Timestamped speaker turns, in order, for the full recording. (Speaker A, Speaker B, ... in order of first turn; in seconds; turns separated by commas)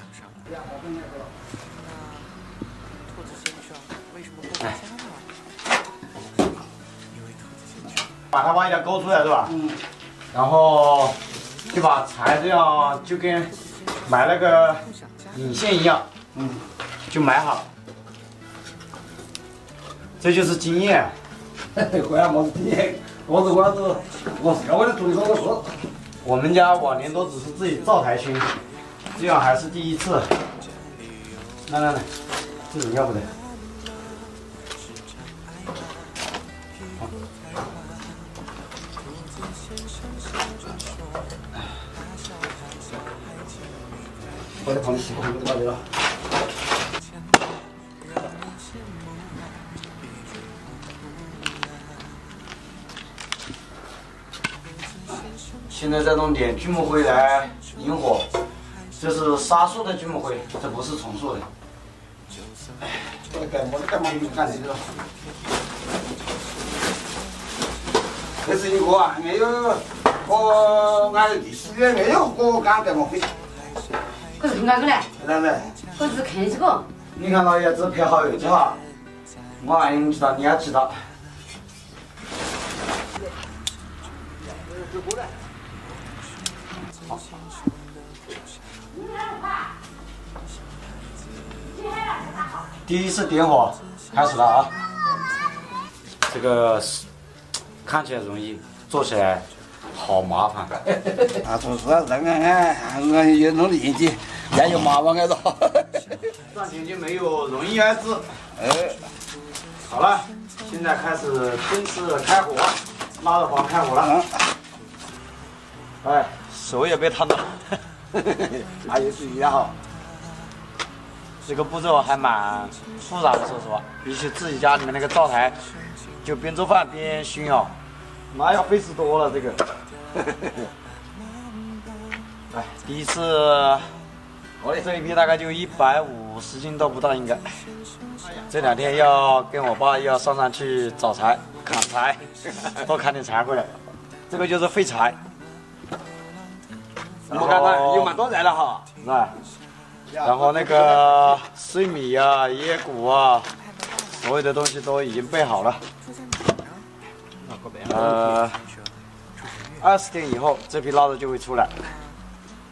Speaker A: 0.5-1.3, Speaker B: 8.3-9.6, Speaker B: 10.3-11.2, Speaker B: 11.7-13.5, Speaker B: 14.1-16.1, Speaker A: 16.4-16.6, Speaker B: 17.1-17.7, Speaker B: 20.2-21.1, Speaker A: 21.8-25.8, Speaker B: 26.2-28.5, Speaker B: 29.2-30.3, Speaker B: 31.7-32.1, Speaker B: 32.7-33.3, Speaker A: 44.6-45.8, Speaker B: 55.7-58.3, Speaker B: 59.0-61.5, Speaker A: 63.1-64.9, Speaker A: 68.4-73.3, Speaker C: 74.4-75.1, Speaker A: 75.2-75.7, Speaker C: 76.0-76.9, Speaker B: 77.2-78.8, Speaker B: 79.6-81.0, Speaker C: 89.0-89.7, Speaker C: 91.8-92.6, Speaker B: 92.9-94.7, Speaker B: 96.3-97.1, Speaker B: 97.8-100.8, Speaker A: 101.4-105.9, Speaker B: 106.5-108.2, Speaker A: 108.6-109.0, Speaker B: 109.9-114.2, Speaker B: 116.0-117.8, Speaker A: 118.6-119.7, Speaker B: 121.5-125.6, Speaker B: 126.2-127.7, Speaker B: 128.3-129.6, Speaker B: 132.5-133.9, Speaker B: 134.6-137.4, Speaker B: 138.5-143.8, Speaker B: 144.3-145.2, Speaker B: 147.3-148.2, Speaker A: 147.3-148.8, Speaker B: 149.0-149.3, Speaker A: 150.1-151.2, Speaker B: 150.2-153.5, Speaker B: 154.1-155.8, Speaker B: 157.8-158.6, Speaker B: 159.8-161.7